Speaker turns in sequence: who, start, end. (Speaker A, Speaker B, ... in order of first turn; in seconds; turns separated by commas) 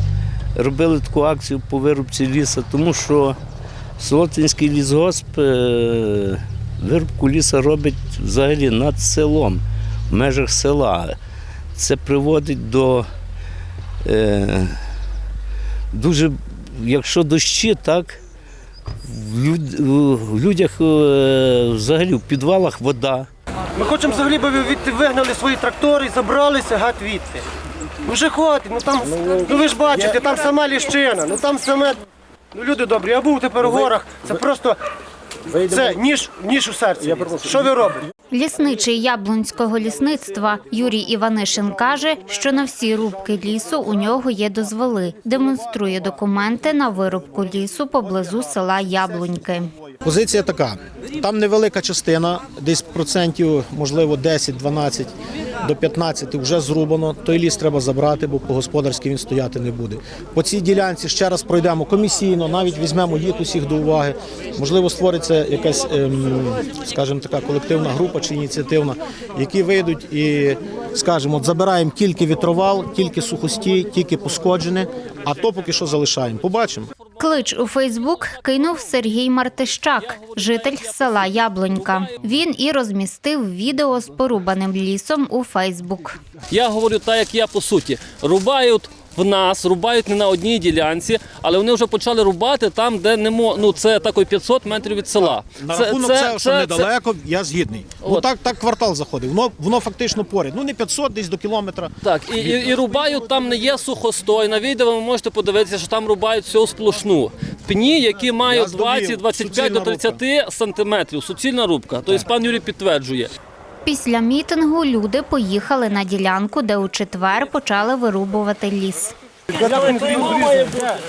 Speaker A: 0.5-3.4, Speaker A: 4.0-11.2, Speaker A: 11.8-13.1, Speaker A: 14.0-14.7, Speaker A: 15.9-18.2, Speaker A: 19.0-23.3, Speaker B: 23.8-27.4, Speaker B: 28.0-32.0, Speaker B: 32.5-34.8, Speaker B: 35.6-38.0, Speaker C: 38.3-49.7, Speaker D: 50.0-76.9, Speaker C: 77.2-86.2, Speaker E: 86.5-96.9, Speaker D: 95.2-101.9, Speaker E: 102.0-113.3, Speaker D: 108.5-110.2, Speaker C: 113.8-119.1, Speaker D: 119.5-120.7, Speaker E: 119.6-120.6